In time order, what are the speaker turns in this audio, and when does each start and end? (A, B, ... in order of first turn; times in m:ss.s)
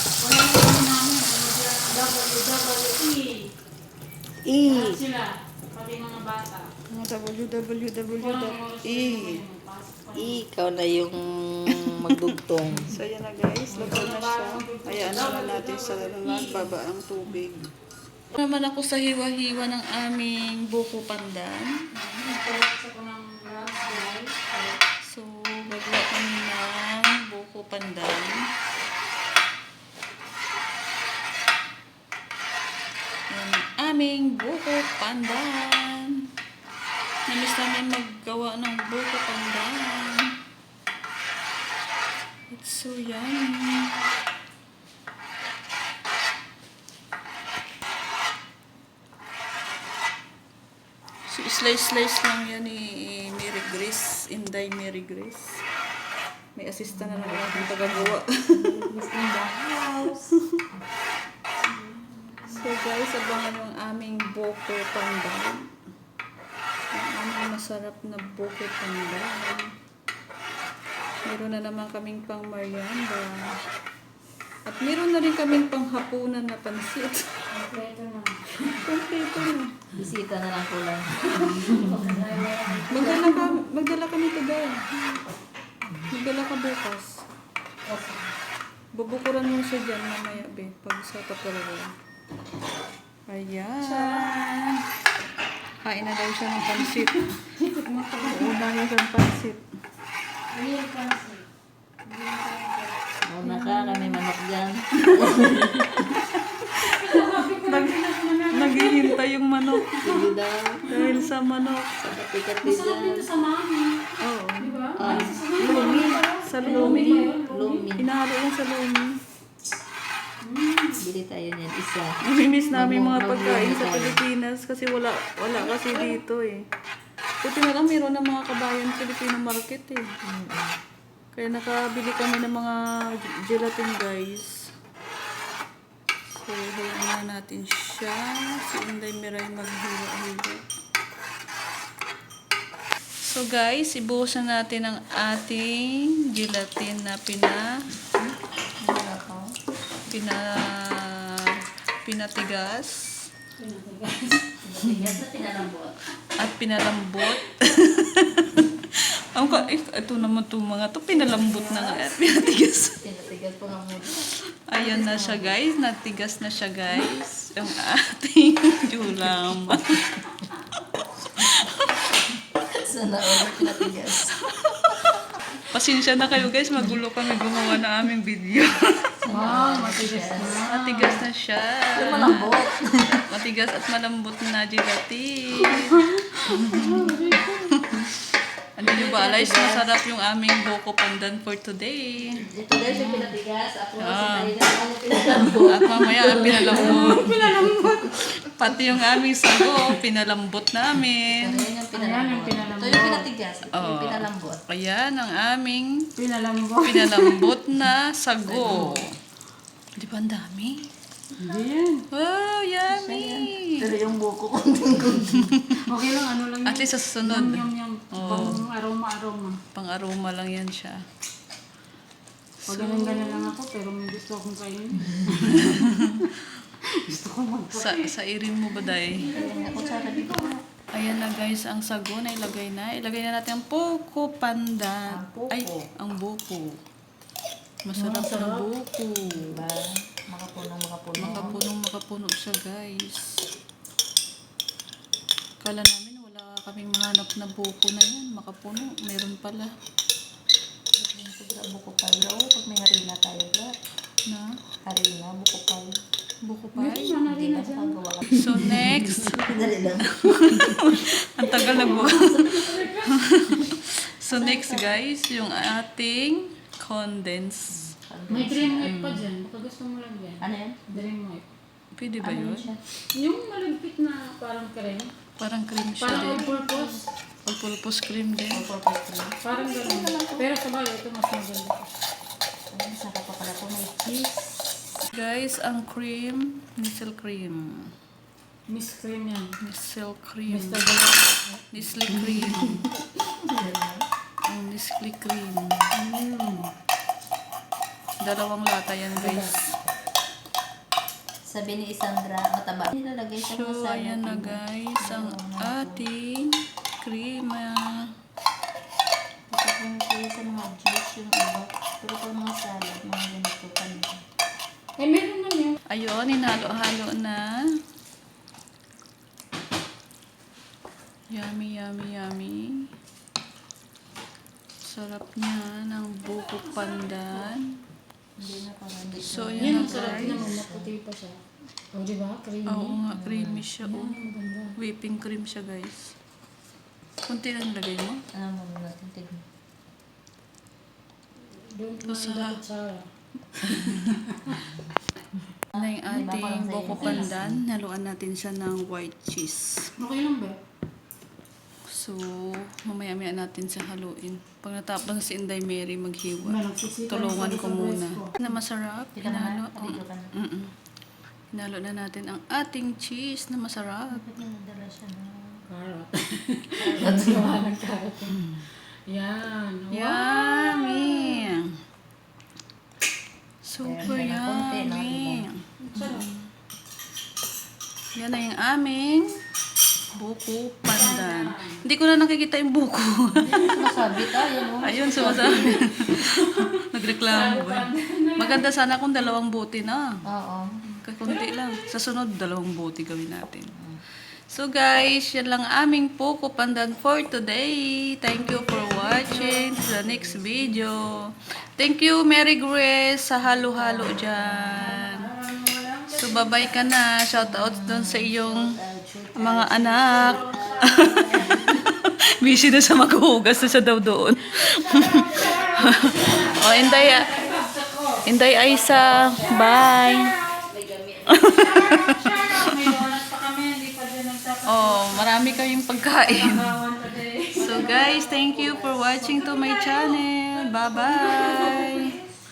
0:00.2-0:03.5 A
0:04.4-0:05.0 B
0:04.6-0:06.7 A
0:06.9-0:09.4 C
0:08.2-0:10.4 A
0:10.2-0:12.9 B
0:11.8-0:12.3 C
0:12.9-0:17.7 C
0:13.7-0:16.8 A
0:18.3-0:21.9 C
0:22.0-0:24.8 A
0:25.0-0:28.3 C
0:33.3-0:36.2 C
0:37.3-0:40.3 C
0:42.5-0:44.0 C
0:51.3-0:55.6 C
0:56.6-0:58.9 C
0:56.9-1:00.3 B
0:59.5-1:00.6 C
1:01.6-1:02.7 A
1:02.5-1:05.6 C
1:06.9-1:09.7 C
1:11.2-1:13.4 C
1:14.7-1:17.2 C
1:17.5-1:18.9 A
1:18.8-1:19.8 C
1:19.9-1:22.4 B
1:21.3-1:23.7 A
1:22.9-1:25.0 C
1:26.1-1:27.1 C
1:27.9-1:28.3 A
1:29.0-1:31.9 C
1:33.3-1:34.7 C
1:33.8-1:34.4 A
1:35.8-1:37.4 C
1:36.8-1:38.6 A
1:38.2-1:39.6 C
1:40.5-1:41.5 A
1:42.1-1:44.2 A
1:43.3-1:46.0 B
1:46.0-1:48.0 C
1:47.0-1:49.2 A
1:48.5-1:50.0 C
1:49.7-1:50.3 A
1:50.0-1:50.8 B
1:50.9-1:52.0 C
1:50.9-1:51.3 A
1:52.0-1:53.3 B
1:52.6-1:54.0 A
1:54.2-1:57.2 C
1:54.6-1:57.9 A
1:55.0-1:58.1 B
1:58.0-1:59.1 C
2:00.4-2:01.0 A
2:01.0-2:02.2 B
2:02.3-2:06.6 C
2:02.5-2:02.8 A
2:02.7-2:04.2 B
2:05.5-2:06.2 A
2:07.4-2:10.0 C
2:10.2-2:10.7 B
2:11.4-2:14.5 C
2:16.3-2:20.6 C
2:23.3-2:27.7 C
2:28.2-2:29.5 B
2:30.1-2:31.5 C
2:32.0-2:33.1 C
2:33.6-2:34.5 A
2:34.6-2:36.0 B
2:36.4-2:43.0 C
2:41.1-2:45.6 B
2:44.7-2:50.4 C
2:46.9-2:47.2 B
2:49.1-2:49.8 B
2:51.3-2:52.0 C
2:52.8-2:54.3 B
2:53.4-2:59.1 C
2:59.2-3:00.6 B
2:59.3-3:01.2 A
3:00.6-3:02.5 C
3:02.0-3:03.2 B
3:02.1-3:02.4 A
3:03.3-3:07.1 C
3:05.6-3:07.8 A
3:08.8-3:12.4 C
3:08.8-3:09.9 B
3:12.4-3:18.1 B
3:13.0-3:13.3 C
3:14.0-3:14.6 C
3:15.6-3:17.3 C
3:16.6-3:18.1 A
3:18.1-3:21.7 C
3:21.3-3:24.6 B
3:21.9-3:23.3 A
3:23.7-3:26.1 C
3:26.2-3:27.5 A
3:26.8-3:29.0 C
3:28.6-3:28.9 B
3:28.6-3:29.0 A
3:30.0-3:30.8 C
3:31.4-3:32.0 A
3:32.1-3:33.7 C
3:32.9-3:35.6 B
3:35.4-3:35.7 C
3:35.8-3:39.6 A
3:36.7-3:38.6 C
3:38.2-3:38.6 B
3:39.7-3:41.0 C
3:42.7-3:43.5 C
3:42.7-3:46.3 A
3:45.5-3:46.4 C
3:47.0-3:48.1 A
3:47.7-3:49.3 C
3:48.7-3:50.5 A
3:49.3-3:50.6 B
3:50.9-3:56.8 C
3:55.1-3:55.8 B
3:57.8-3:59.6 C
3:58.0-3:58.7 A
3:59.3-4:01.6 B
4:01.2-4:03.4 C
4:05.6-4:09.7 C
4:11.0-4:13.7 B
4:14.3-4:14.5 C
4:14.8-4:15.9 B
4:16.4-4:17.2 C
4:16.8-4:19.5 A
4:17.3-4:18.3 B
4:18.3-4:27.9 C
4:19.4-4:22.6 B
4:21.6-4:23.6 A
4:24.3-4:25.0 B
4:27.7-4:29.2 B
4:28.3-4:31.4 A
4:28.8-4:29.2 C
4:30.4-4:31.1 B
4:32.0-4:32.7 C
4:32.2-4:32.8 B
4:33.1-4:35.1 A
4:35.4-4:36.5 C
4:36.0-4:37.1 A
4:36.1-4:37.0 B
4:37.4-4:38.6 C
4:38.5-4:40.5 B
4:39.4-4:41.9 A
4:42.7-4:44.8 B
4:45.1-4:47.8 C
4:48.7-4:49.6 A
4:49.6-4:50.8 C
4:50.5-4:51.6 A
4:51.7-4:52.9 C
4:52.3-4:52.6 A
4:52.3-4:52.8 B
4:53.4-4:54.0 B
4:54.5-4:55.9 C
4:56.0-4:56.7 A
4:58.2-4:59.7 C
4:59.2-4:59.6 A
5:01.4-5:06.1 B
5:03.4-5:08.1 C
5:09.5-5:14.2 B
5:15.0-5:15.8 A
5:15.9-5:17.6 C
5:21.3-5:22.8 C
5:24.8-5:27.8 C
5:26.2-5:27.5 A
5:28.4-5:30.9 B
5:29.1-5:30.5 C
5:29.6-5:31.4 A
5:31.9-5:33.0 A
5:32.7-5:34.2 C
5:33.1-5:33.7 B
5:33.8-5:34.8 A
5:34.8-5:36.1 C
5:37.2-5:38.2 C
5:38.3-5:39.4 B
5:41.5-5:44.7 A
5:42.1-5:42.6 C
5:43.7-5:44.1 C
5:45.6-5:47.6 B
5:45.8-5:49.9 C
5:46.9-5:47.3 A
5:50.0-5:50.6 A
5:51.9-6:00.7 C
5:56.4-5:58.4 A
5:59.1-6:00.3 B
6:01.5-6:04.3 C
6:04.1-6:05.6 B
6:05.7-6:11.4 A
6:06.8-6:07.6 B
6:09.9-6:11.6 C
6:13.6-6:16.5 C
6:13.8-6:15.4 B
6:15.8-6:16.3 A
6:18.2-6:19.3 C
6:20.1-6:23.6 C
6:20.9-6:21.8 A
6:23.5-6:25.9 B
6:23.5-6:28.7 A
6:24.8-6:30.1 C
6:30.3-6:31.0 B
6:31.1-6:33.7 C
6:31.3-6:31.8 A
6:33.8-6:34.0 B
6:34.5-6:41.1 C
6:38.4-6:39.7 A
6:39.3-6:40.8 B
6:41.8-6:45.2 C
6:43.5-6:44.9 B
6:44.8-6:46.9 A
6:46.1-6:48.7 C
6:47.3-6:51.7 B
6:49.4-6:57.3 C
6:50.1-6:51.8 A
6:54.6-6:58.2 A
6:58.2-7:00.3 C
6:58.5-6:59.9 B
6:59.5-7:00.7 A
7:00.7-7:01.6 B
7:01.4-7:03.0 C
7:01.4-7:08.2 A
7:04.7-7:06.6 C
7:07.6-7:09.4 B
7:07.6-7:12.1 C
7:09.2-7:12.3 A